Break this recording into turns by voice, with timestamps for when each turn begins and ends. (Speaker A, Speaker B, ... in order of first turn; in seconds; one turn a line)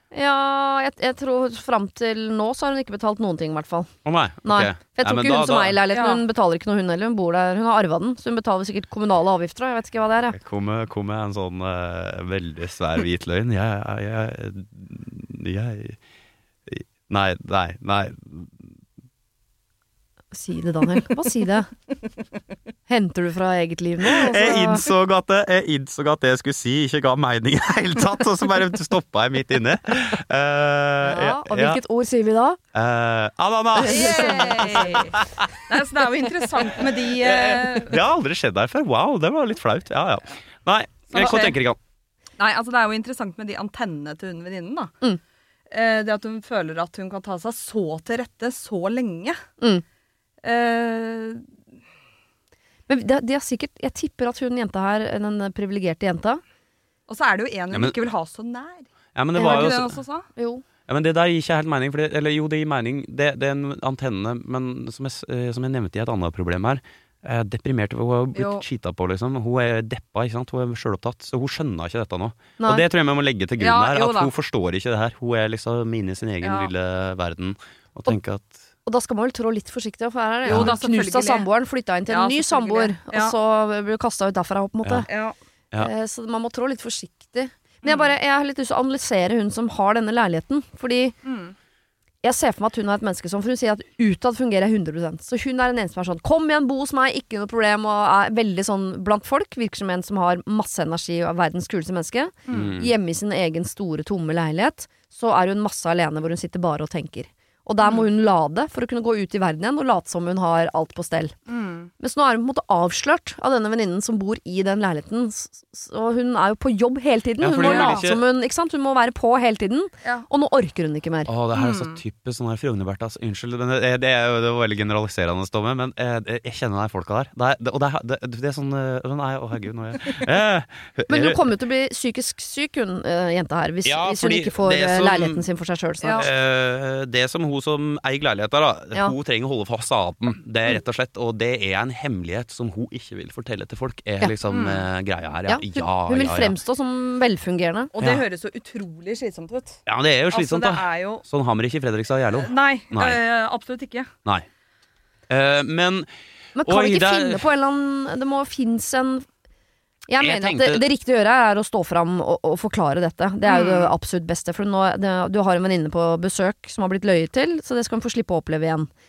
Speaker A: 0.1-3.9
Speaker B: 4.0-5.8
Speaker A: 4.4-10.4
Speaker C: 5.9-6.2
Speaker B: 10.3-16.0
Speaker B: 16.7-18.7
Speaker A: 20.3-21.7
Speaker A: 22.9-24.9
Speaker B: 24.0-31.8
Speaker A: 31.0-32.6
Speaker B: 32.7-35.5
Speaker A: 33.8-35.0
Speaker C: 33.8-38.0
Speaker B: 37.1-41.8
Speaker C: 41.1-41.6
Speaker C: 42.4-44.9
Speaker C: 45.7-49.4
Speaker C: 50.4-51.5
Speaker A: 52.9-56.4
Speaker C: 57.1-60.3
Speaker B: 59.1-60.0
Speaker A: 59.4-59.7
Speaker A: 60.4-60.6
Speaker B: 60.9-78.6
Speaker C: 68.3-68.6
Speaker A: 72.6-72.8
Speaker C: 73.6-74.3
Speaker C: 76.4-76.7
Speaker A: 78.8-85.1
Speaker C: 80.5-81.5
Speaker B: 80.5-80.8
Speaker C: 82.1-83.3
Speaker C: 85.1-85.3
Speaker A: 85.8-91.1
Speaker C: 87.8-88.1
Speaker C: 91.2-91.5
Speaker A: 92.2-111.3
Speaker C: 102.5-102.7
Speaker B: 102.5-102.9
Speaker C: 107.8-108.1
Speaker C: 111.5-111.9
Speaker A: 112.0-121.3
Speaker B: 117.4-118.2
Speaker C: 117.6-118.1
Speaker B: 121.3-131.4
Speaker C: 121.5-122.0
Speaker A: 131.1-136.2
Speaker B: 133.8-135.4
Speaker C: 136.0-136.3
Speaker B: 136.1-146.6
Speaker C: 144.5-144.8
Speaker A: 145.5-147.9
Speaker C: 147.9-151.2
Speaker B: 149.9-153.2
Speaker C: 152.3-154.1
Speaker B: 155.3-156.1
Speaker A: 156.6-159.3
Speaker B: 156.6-157.4
Speaker A: 160.1-168.9
Speaker B: 160.2-160.8
Speaker C: 163.4-163.9